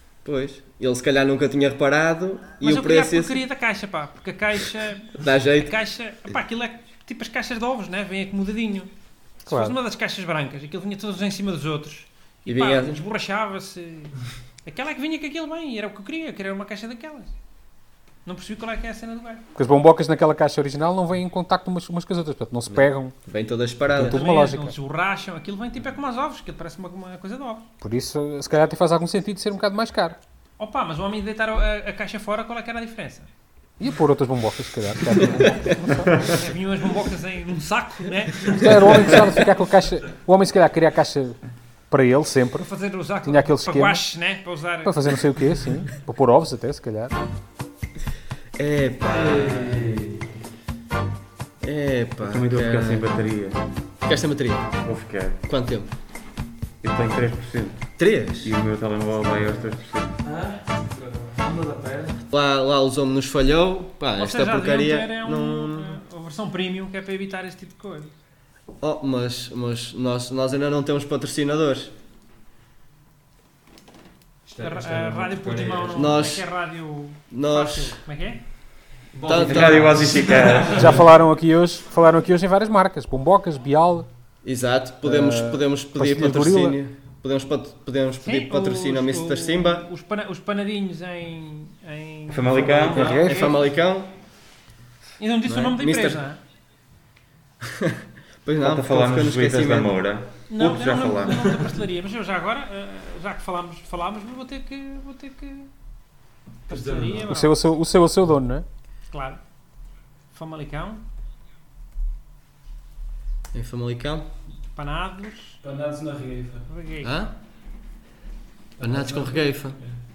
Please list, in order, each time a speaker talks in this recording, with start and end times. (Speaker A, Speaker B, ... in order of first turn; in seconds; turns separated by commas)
Speaker A: 0.2-3.4, Speaker B: 2.6-8.9, Speaker A: 5.2-5.7, Speaker C: 9.4-9.8, Speaker B: 9.5-17.3, Speaker A: 12.5-13.0, Speaker B: 18.2-19.4, Speaker C: 19.5-23.1, Speaker A: 22.7-24.2, Speaker C: 23.9-24.7, Speaker B: 24.0-27.7, Speaker C: 27.8-30.2, Speaker B: 30.6-33.3, Speaker C: 33.8-36.3, Speaker B: 35.8-39.2, Speaker C: 38.5-41.4, Speaker C: 41.9-42.7, Speaker B: 42.6-45.1, Speaker C: 43.2-44.0, Speaker C: 44.8-47.2, Speaker A: 48.6-50.1, Speaker D: 49.2-49.7, Speaker A: 51.6-53.1, Speaker D: 52.2-53.6, Speaker A: 54.0-54.8, Speaker D: 54.8-55.4, Speaker A: 55.5-55.9, Speaker D: 56.8-57.9, Speaker A: 58.0-58.6, Speaker D: 58.4-60.1, Speaker E: 60.2-62.2, Speaker A: 62.3-66.0, Speaker B: 64.2-68.1, Speaker A: 68.8-71.9, Speaker E: 74.5-76.3, Speaker B: 74.6-78.4, Speaker A: 75.9-76.5, Speaker A: 77.3-78.0, Speaker E: 79.1-80.9, Speaker A: 79.2-80.2, Speaker D: 79.4-81.0, Speaker C: 80.7-84.1, Speaker A: 84.4-89.8, Speaker C: 85.0-86.8, Speaker B: 88.2-93.6, Speaker D: 92.3-93.2, Speaker E: 92.6-93.2, Speaker A: 92.8-94.1, Speaker C: 92.9-93.5, Speaker B: 95.2-96.4, Speaker A: 95.5-96.2, Speaker A: 97.8-100.0, Speaker D: 98.6-101.5, Speaker B: 100.5-105.7, Speaker F: 106.7-107.2, Speaker B: 106.7-107.6, Speaker C: 107.2-108.7, Speaker B: 109.1-109.4, Speaker B: 110.3-111.0, Speaker A: 113.5-114.3, Speaker B: 114.7-115.6, Speaker F: 115.6-116.7, Speaker B: 116.7-117.1, Speaker A: 117.0-117.3, Speaker A: 118.8-119.8, Speaker F: 118.8-119.9